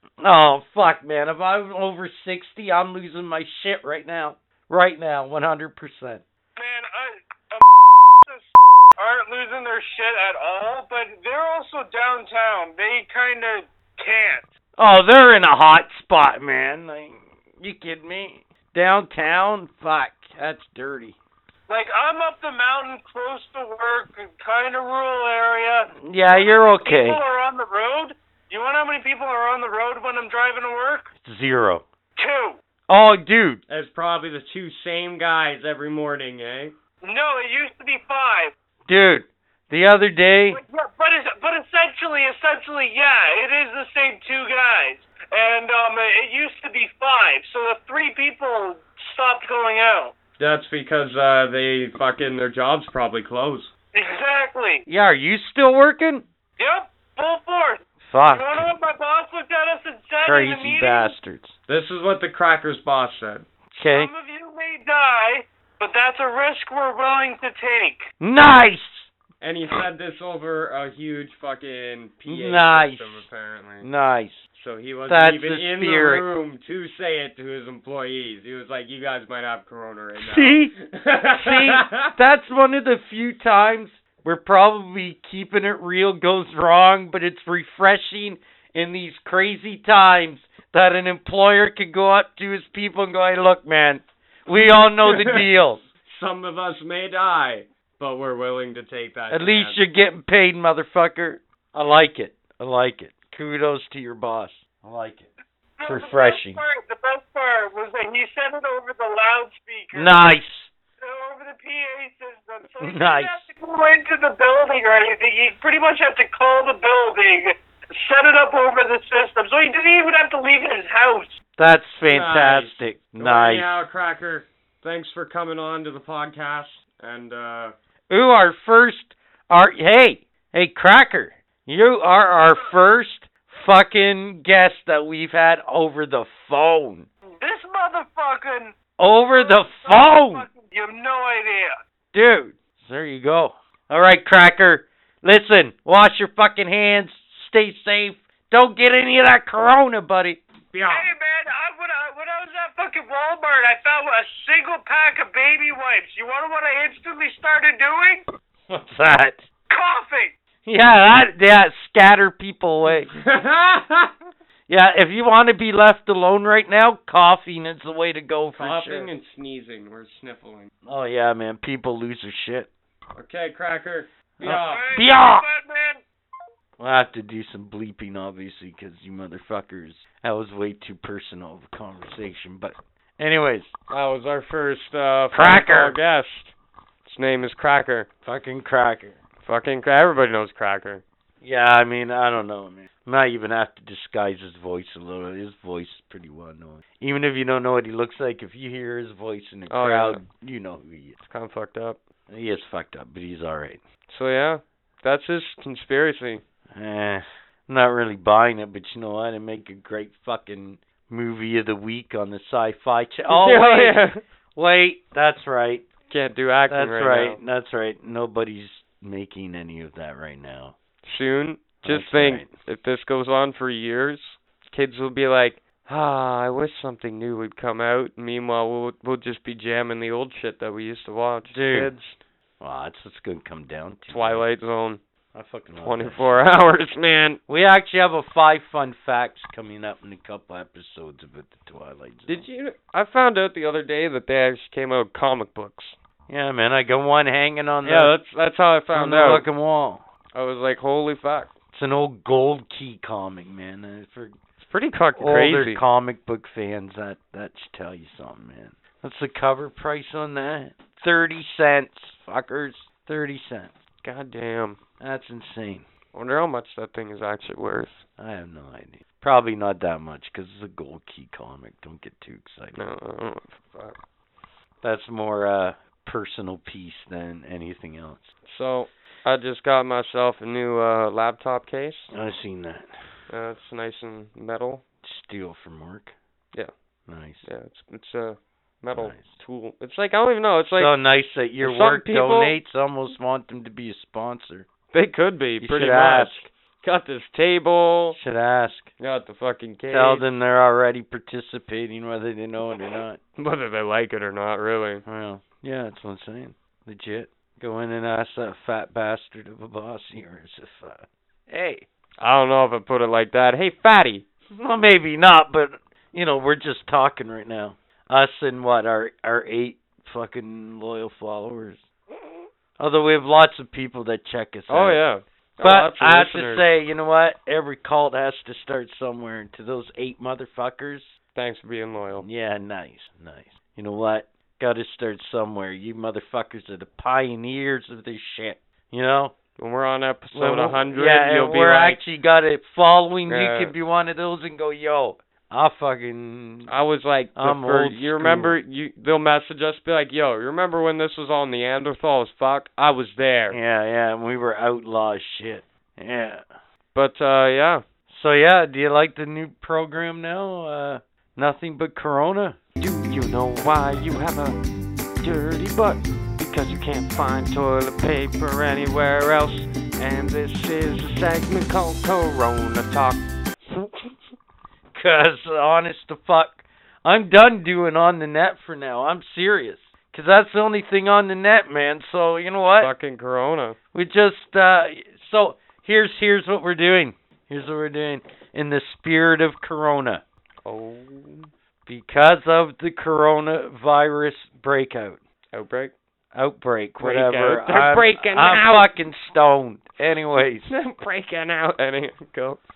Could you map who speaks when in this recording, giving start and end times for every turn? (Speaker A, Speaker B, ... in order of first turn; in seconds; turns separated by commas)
Speaker A: 0.2-6.2, Speaker B: 6.5-14.5, Speaker A: 14.8-21.2, Speaker B: 21.7-31.1, Speaker A: 26.0-27.2, Speaker A: 31.1-31.8, Speaker B: 32.2-32.6, Speaker A: 32.9-33.6, Speaker C: 33.7-36.7, Speaker B: 37.0-38.5, Speaker A: 38.9-40.6, Speaker B: 40.5-50.1, Speaker C: 50.4-53.7, Speaker B: 53.9-54.8, Speaker A: 54.9-56.2, Speaker B: 56.6-61.1, Speaker A: 58.0-58.7, Speaker A: 60.2-61.5, Speaker C: 61.7-63.5, Speaker A: 63.7-64.1, Speaker B: 63.9-68.0, Speaker A: 68.2-69.1, Speaker C: 69.4-73.8, Speaker A: 72.2-73.2, Speaker A: 73.8-74.4, Speaker C: 74.5-82.1, Speaker A: 75.1-76.2, Speaker A: 80.2-95.8, Speaker C: 94.6-95.5, Speaker C: 96.0-99.8, Speaker A: 99.3-105.3, Speaker B: 105.8-110.2, Speaker A: 105.8-106.6, Speaker A: 109.9-110.7, Speaker B: 111.0-121.4, Speaker A: 112.8-113.4, Speaker A: 121.6-123.7, Speaker C: 122.1-127.7, Speaker A: 128.1-137.1, Speaker B: 137.4-141.7, Speaker A: 139.0-140.5, Speaker A: 142.1-150.4, Speaker C: 150.7-151.1, Speaker B: 150.9-158.2, Speaker A: 158.7-159.5, Speaker B: 159.7-160.3, Speaker A: 160.6-163.1, Speaker C: 163.1-164.1, Speaker A: 164.7-169.1, Speaker C: 168.5-170.7, Speaker A: 170.8-172.7, Speaker C: 173.1-174.8, Speaker A: 174.4-175.4, Speaker B: 174.6-176.0, Speaker A: 176.8-183.7, Speaker C: 183.9-186.5, Speaker A: 185.3-186.0, Speaker C: 187.0-188.1, Speaker A: 188.2-189.2, Speaker C: 189.4-191.0, Speaker A: 191.4-201.2, Speaker C: 199.7-200.2, Speaker C: 201.2-202.0, Speaker A: 202.3-203.8, Speaker C: 204.1-206.4, Speaker A: 206.7-214.0, Speaker C: 213.3-214.2, Speaker A: 214.5-215.9, Speaker C: 216.1-217.4, Speaker A: 216.7-220.8, Speaker C: 221.0-232.2, Speaker A: 221.8-222.5, Speaker A: 231.5-231.9, Speaker A: 232.6-234.4, Speaker C: 234.1-235.0, Speaker A: 235.3-236.4, Speaker C: 235.8-237.4, Speaker A: 237.5-242.5, Speaker C: 242.3-245.9, Speaker A: 246.3-248.2, Speaker C: 247.8-249.4, Speaker A: 248.9-250.1, Speaker C: 250.3-251.5, Speaker A: 251.7-254.3, Speaker C: 254.6-255.8, Speaker A: 255.2-263.7, Speaker C: 264.0-264.8, Speaker A: 265.0-265.9, Speaker C: 266.1-268.0, Speaker A: 268.2-272.8, Speaker C: 272.7-274.0, Speaker A: 274.8-278.3, Speaker C: 278.4-282.1, Speaker A: 282.1-283.1, Speaker C: 283.3-284.8, Speaker A: 285.0-286.1, Speaker A: 287.1-287.4, Speaker C: 287.4-290.9, Speaker A: 288.9-289.3, Speaker A: 290.7-294.7, Speaker C: 291.6-292.5, Speaker C: 294.9-298.2, Speaker A: 295.6-296.5, Speaker A: 298.1-298.9, Speaker C: 299.0-300.2, Speaker A: 299.9-303.2, Speaker C: 303.4-305.0, Speaker A: 305.0-311.9, Speaker C: 312.2-314.2, Speaker A: 314.5-321.9, Speaker A: 322.8-325.0, Speaker C: 324.7-326.6, Speaker A: 325.6-331.2, Speaker C: 331.4-332.2, Speaker A: 332.2-339.4, Speaker C: 339.6-342.0, Speaker A: 340.3-346.7, Speaker C: 343.3-343.7, Speaker C: 346.6-353.6, Speaker A: 347.3-348.6, Speaker A: 353.5-356.5, Speaker C: 356.9-357.8, Speaker A: 358.1-362.6, Speaker C: 362.8-364.6, Speaker C: 365.2-374.1, Speaker A: 374.9-382.9, Speaker C: 382.8-383.8, Speaker A: 383.9-390.2, Speaker C: 390.6-391.5, Speaker A: 391.9-395.2, Speaker C: 395.5-395.9, Speaker A: 396.3-400.7, Speaker C: 397.0-398.9, Speaker C: 400.6-402.6